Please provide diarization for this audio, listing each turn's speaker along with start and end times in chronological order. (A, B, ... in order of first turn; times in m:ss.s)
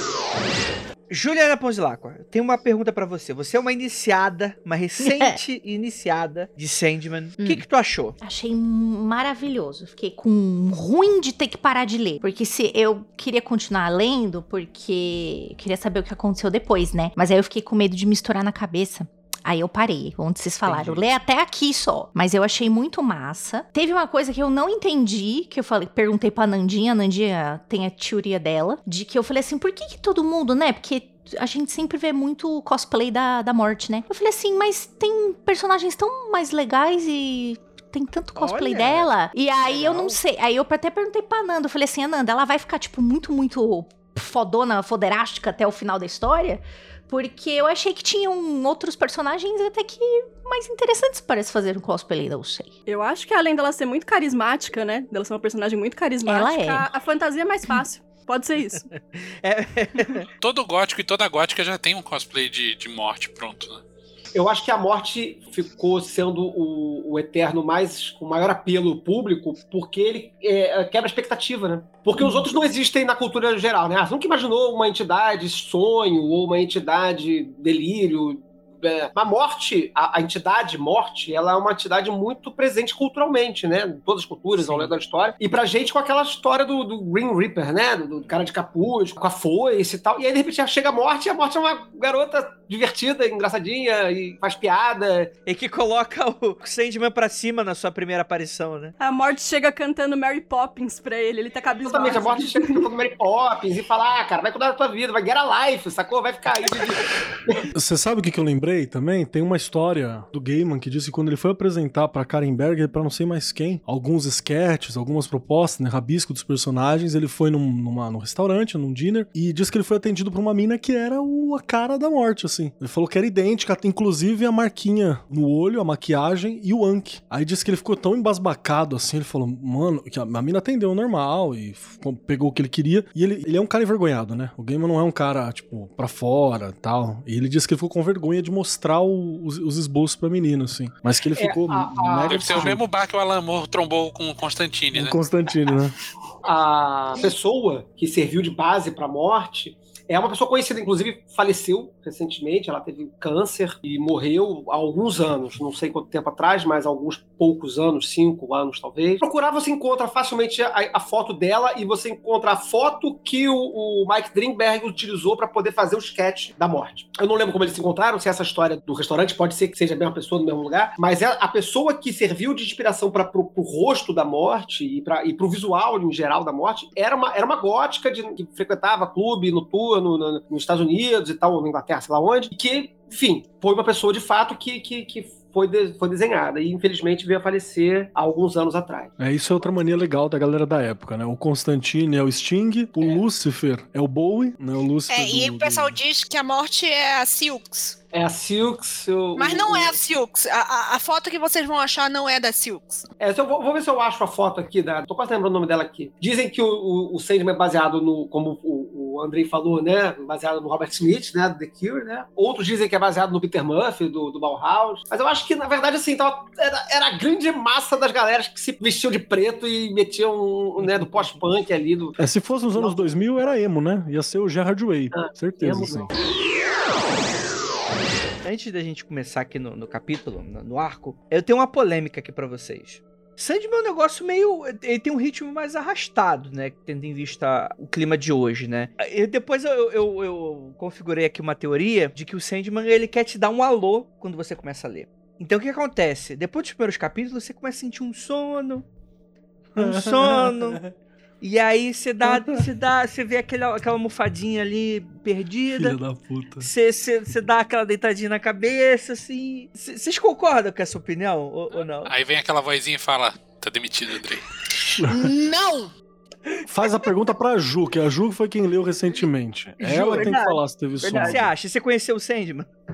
0:01.1-0:08.2 A
0:05.0-0:05.4 B
0:07.4-0:07.6 B
0:08.2-0:52.7 B
0:38.4-0:40.2 A
0:52.9-0:58.9 C
0:56.2-0:56.9 B
0:58.9-1:00.3 A
1:00.4-1:03.8 D
1:04.3-1:35.3 E
1:24.6-1:24.9 A
1:35.4-1:38.9 A
1:39.0-1:42.7 C
1:41.8-1:47.6 E
1:47.7-2:22.8 F
2:21.4-2:22.7 E
2:22.3-2:25.2 D
2:24.9-2:25.9 F
2:26.4-3:09.1 E
3:09.2-3:16.0 F
3:15.1-3:18.0 G
3:18.1-3:20.0 E
3:19.3-3:23.0 G
3:23.2-3:42.2 E
3:42.2-3:46.1 F
3:42.8-3:43.5 E
3:45.1-3:46.2 E
3:48.4-4:08.8 A
4:09.7-4:10.9 F
4:09.8-4:10.8 A
4:11.4-4:16.0 A
4:12.2-4:12.6 F
4:15.7-4:16.7 F
4:16.6-4:22.1 A
4:22.0-4:24.4 D
4:25.0-4:25.3 F
4:25.0-4:25.9 G
4:26.7-4:31.5 F
4:29.8-4:32.7 A
4:31.1-4:31.4 E